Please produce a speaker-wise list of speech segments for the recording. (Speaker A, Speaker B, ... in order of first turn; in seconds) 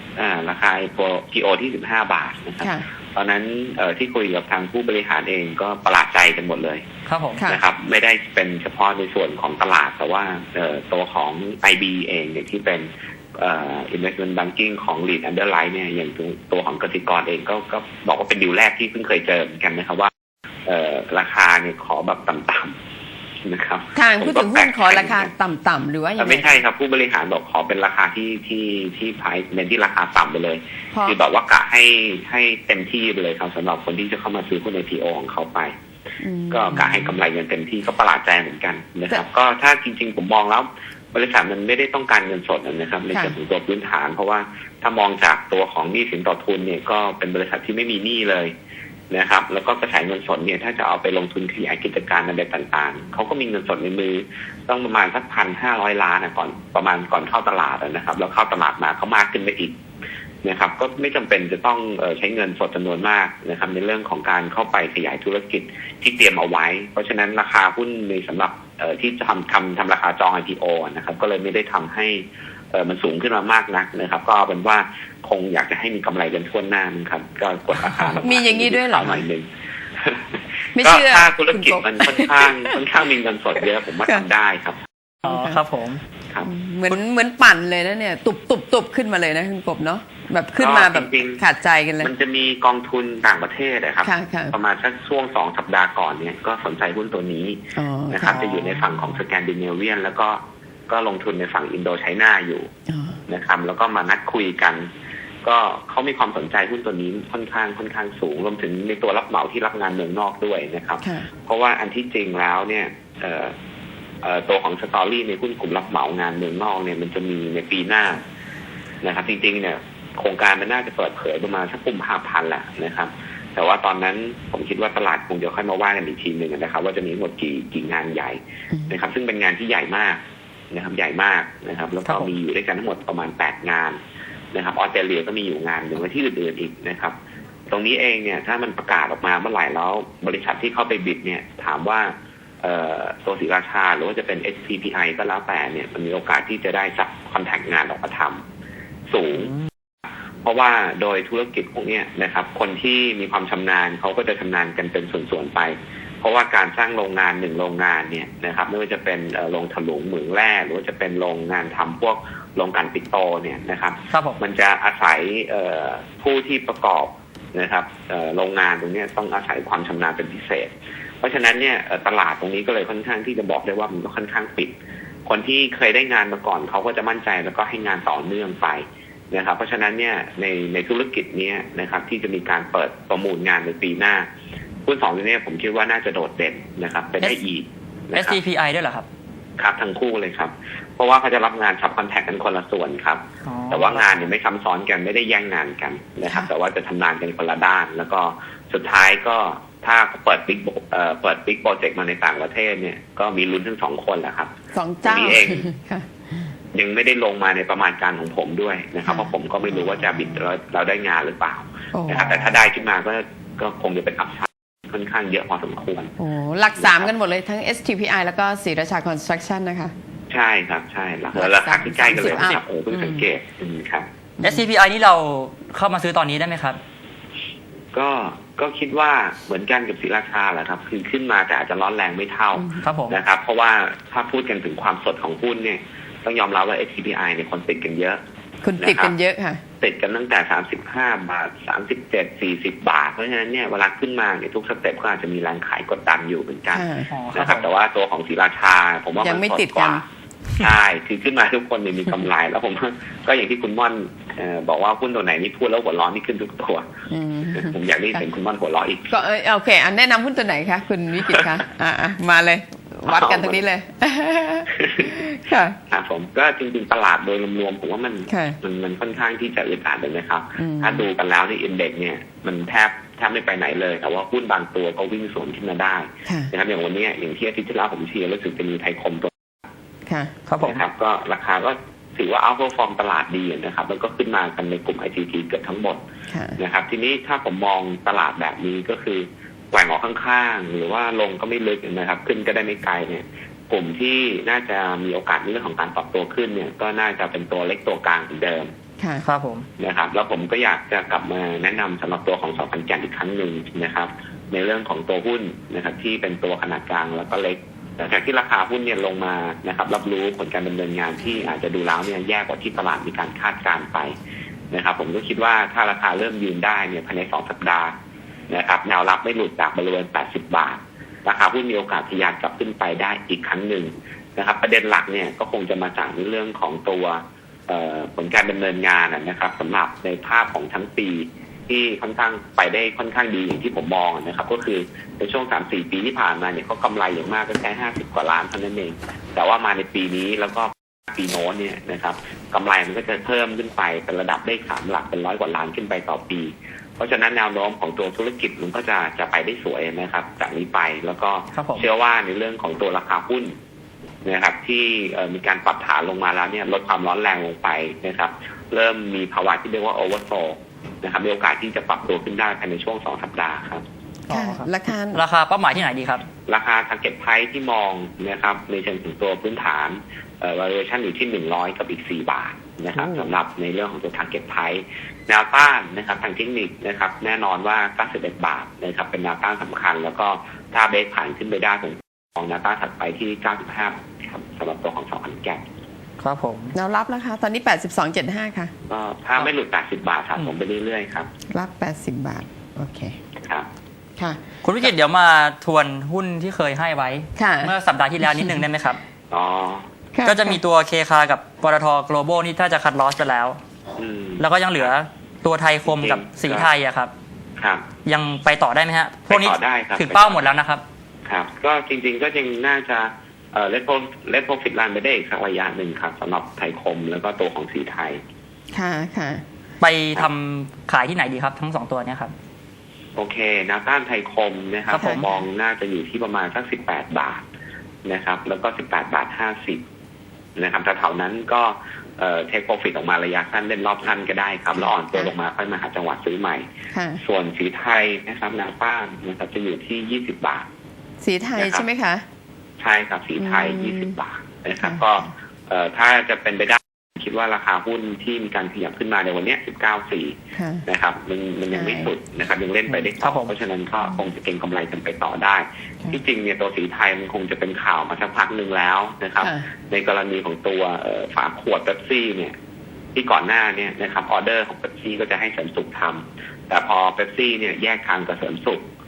Speaker A: 0.2-6.8, 7.4-20.1, 20.7-22.8, 23.4-25.3, 26.2-35.7, 36.5-48.5, 49.1-59.8, 60.4-79.5, 80.0-84.8, 90.6-91.4, 92.0-102.7, 103.3-104.9, 105.4-113.5, 114.2-118.2, 119.0-130.2, 130.7-134.0, 134.5-137.1, 137.7-148.4, 149.1-149.5, 150.4-174.8, 175.3-184.3, 184.9-188.4, 189.6-204.5, 205.0-205.7, 206.7-216.1, 216.8-217.1, 220.3-224.1, 227.9-238.2, 238.8-239.1, 239.8-250.0, 250.6-256.9, 257.5-259.2, 263.1-263.6, 264.8-265.2, 265.9-279.3, 280.6-286.0, 286.6-298.7, 299.8-314.1, 314.7-317.9, 318.5-353.5, 354.2-363.8, 366.5-385.6, 388.9-391.3, 399.3-399.9, 404.0-404.9, 405.9-406.7, 407.6-407.9, 409.3-410.5, 411.3-418.2, 423.2-427.4, 428.1-429.8, 430.6-436.7, 437.2-440.6, 441.6-441.9, 442.8-462.5, 463.1-468.8
Speaker B: 7.1-7.5, 85.2-86.0, 98.4-98.9, 164.1-164.4, 188.1-189.1, 193.5-194.1, 224.4-226.8, 232.8-233.2, 247.1-247.7, 280.5-280.8, 299.2-299.7, 351.6-351.9, 364.3-366.2, 373.0-373.3, 386.2-386.8, 394.6-399.0, 400.2-403.6, 404.4-407.1, 408.1-410.8, 419.8-422.3, 424.9-425.3, 452.9-453.5
Speaker C: 7.4-7.6, 23.9-26.6, 36.2-37.2, 78.2-79.3, 80.8-82.8, 85.2-85.6, 86.4-92.1, 94.0-94.5, 97.8-98.4, 102.9-103.2, 111.0-111.3, 128.7-129.0, 204.7-206.5, 209.1-210.4, 211.9-212.6, 216.2-219.9, 221.3-223.2, 224.4-224.7, 232.6-232.8, 238.6-239.6, 246.7-247.1, 249.2-250.0, 257.1-258.2, 259.1-265.8, 268.3-268.6, 270.6-271.1, 276.3-276.5, 280.1-280.3, 286.3-286.6, 364.3-365.2, 386.7-388.7, 391.5-393.2, 397.4-398.6, 400.1-400.6, 418.7-419.4, 425.0-425.2, 434.7-435.3, 436.9-437.2, 441.2-442.2, 443.4-444.2, 444.8-445.3, 450.5-450.9, 451.7-452.1, 459.4-459.7